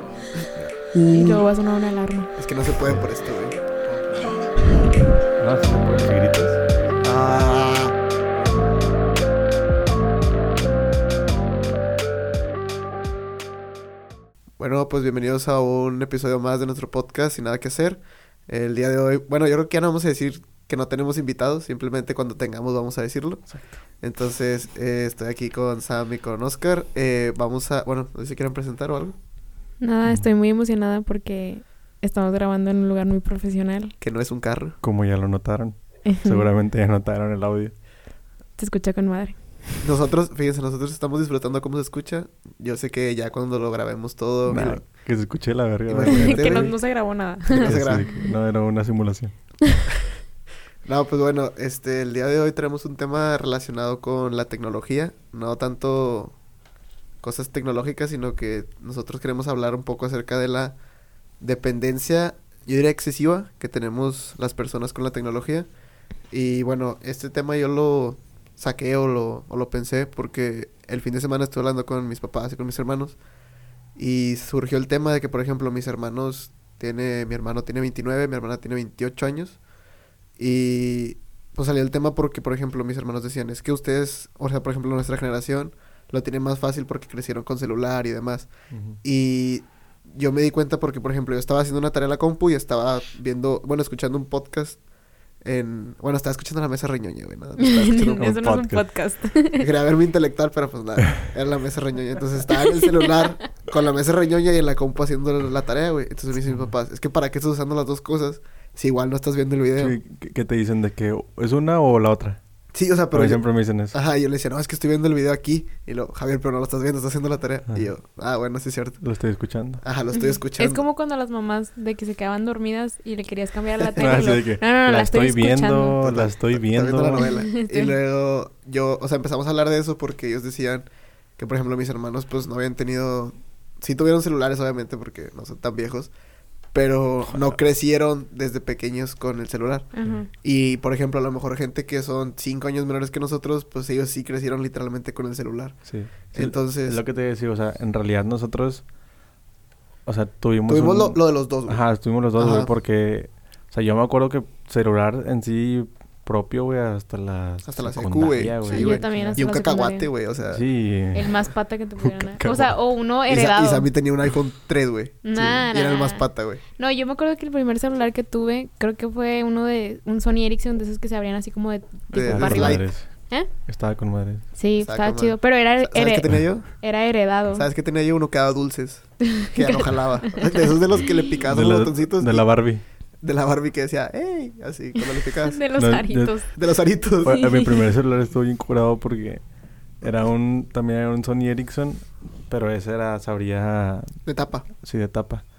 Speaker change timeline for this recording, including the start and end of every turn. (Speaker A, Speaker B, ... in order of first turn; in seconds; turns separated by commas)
Speaker A: 0.4-1.5, Speaker B: 1.1-2.3, Speaker A: 2.4-3.6, Speaker C: 5.4-6.6, Speaker A: 7.0-8.0, Speaker A: 14.6-29.2, Speaker C: 23.5-23.8, Speaker B: 29.8-33.9, Speaker A: 34.0-34.8, Speaker C: 34.8-37.7, Speaker B: 36.0-36.5, Speaker B: 38.6-39.8, Speaker A: 39.8-44.8, Speaker C: 44.5-46.8, Speaker A: 45.9-46.8, Speaker B: 46.1-48.3, Speaker A: 47.5-48.1, Speaker C: 47.6-49.4, Speaker A: 50.8-56.3, Speaker A: 57.2-60.8, Speaker A: 61.4-65.7, Speaker A: 66.3-73.2, Speaker A: 74.0-79.6, Speaker A: 80.4-94.8, Speaker C: 88.7-89.0, Speaker A: 95.4-98.4, Speaker B: 97.6-99.7, Speaker C: 98.1-98.9, Speaker A: 99.6-110.0, Speaker B: 102.8-103.1, Speaker C: 109.8-112.4, Speaker A: 112.7-119.0, Speaker C: 113.1-114.0, Speaker C: 119.0-119.8, Speaker A: 119.8-120.8, Speaker B: 120.2-126.0, Speaker A: 123.9-124.2, Speaker C: 124.0-127.2, Speaker A: 126.0-136.1, Speaker B: 127.2-127.9, Speaker A: 136.7-147.0, Speaker B: 139.9-140.3, Speaker C: 145.8-148.8, Speaker C: 150.1-159.4, Speaker A: 150.7-151.8, Speaker A: 152.4-152.7, Speaker A: 157.7-160.6, Speaker B: 158.7-160.1, Speaker C: 160.5-161.3, Speaker B: 161.1-163.9, Speaker C: 162.0-162.7, Speaker A: 163.3-166.6, Speaker B: 165.2-173.5, Speaker A: 172.1-172.9, Speaker C: 172.2-174.4, Speaker B: 174.6-177.7, Speaker A: 174.8-176.8, Speaker A: 177.5-182.5, Speaker B: 179.3-180.7, Speaker C: 181.5-182.8, Speaker A: 183.2-185.6, Speaker B: 185.0-186.5, Speaker C: 185.8-186.4, Speaker A: 186.6-187.4, Speaker C: 187.2-189.4, Speaker B: 187.3-187.8, Speaker C: 190.0-195.4, Speaker A: 194.2-194.7